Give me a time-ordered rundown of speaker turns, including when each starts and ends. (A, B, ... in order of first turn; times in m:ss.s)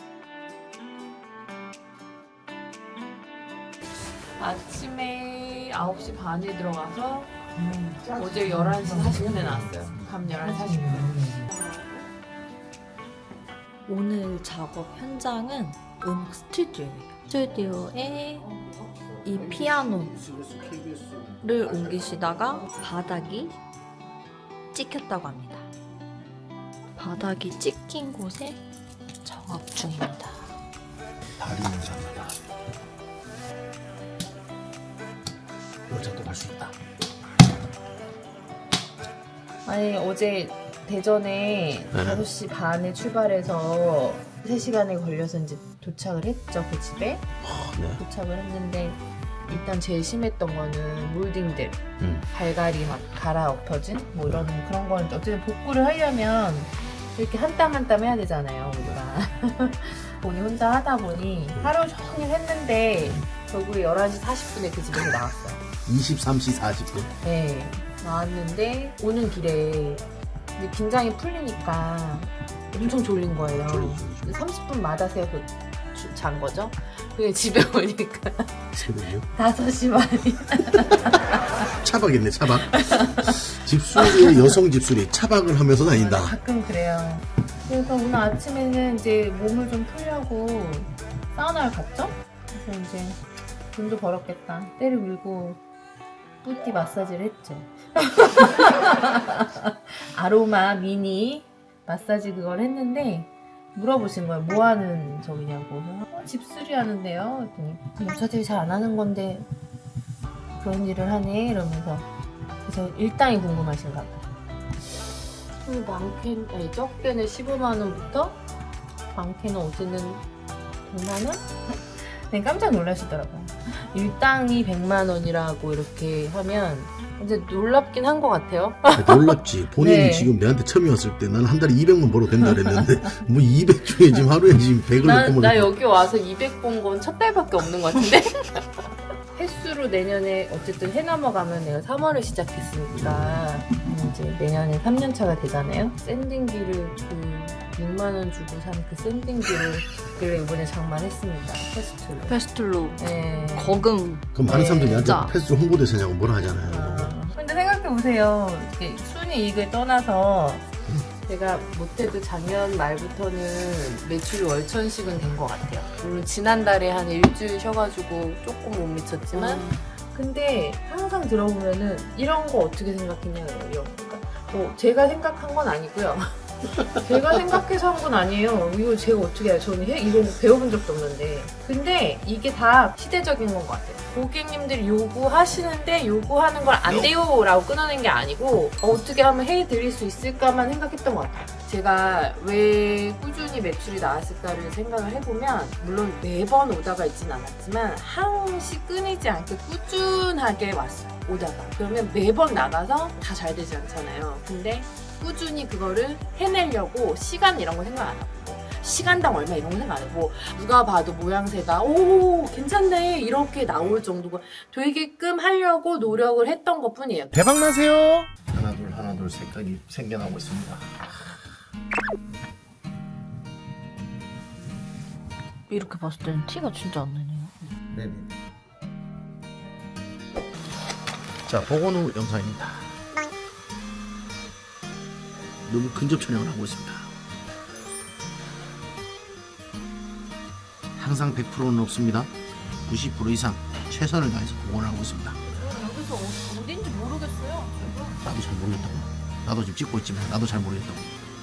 0:04.4-0:07.4 A
0:07.9-0:11.9 A
0:13.9-0:18.5 B
0:19.2-0:20.4 B
0:21.4-0:23.5 B
0:24.7-0:25.7 B
0:27.0-0:28.6 B
0:29.2-0:30.4 B
0:31.4-0:32.3 C
0:35.9-0:36.7 C
0:39.6-0:47.2 A
0:41.9-0:42.2 C
0:47.4-0:48.0 C
0:48.0-1:05.6 A
0:52.0-0:52.2 C
1:05.8-1:07.1 C
1:07.2-1:10.0 A
1:10.6-1:18.8 A
1:13.4-1:14.4 C
1:18.8-1:19.2 C
1:19.3-1:21.3 A
1:21.8-1:22.7 C
1:22.7-1:24.5 A
1:23.4-1:26.4 C
1:25.8-1:33.2 A
1:33.7-1:35.6 A
1:36.4-1:49.5 A
1:50.6-1:52.1 A
1:52.6-1:54.2 A
1:55.6-1:58.4 A
1:59.1-2:00.2 A
2:00.8-2:10.3 A
2:08.9-2:15.7 C
2:15.0-2:18.7 A
2:19.3-2:32.4 A
2:23.0-2:23.4 C
2:32.3-2:33.0 B
2:33.0-2:33.8 A
2:33.5-2:34.3 B
2:34.3-2:37.1 C
2:34.4-2:35.2 A
2:35.0-2:35.3 B
2:36.7-2:40.6 A
2:41.2-2:56.3 A
2:49.3-2:49.8 B
2:56.8-3:37.3 A
3:37.4-3:41.3 C
3:45.7-3:47.7 B
3:47.9-3:48.3 C
3:51.5-3:52.9 C
3:55.6-3:57.1 C
4:01.0-4:02.3 C
4:02.8-4:05.4 C
4:05.5-4:08.2 A
4:08.2-4:11.1 C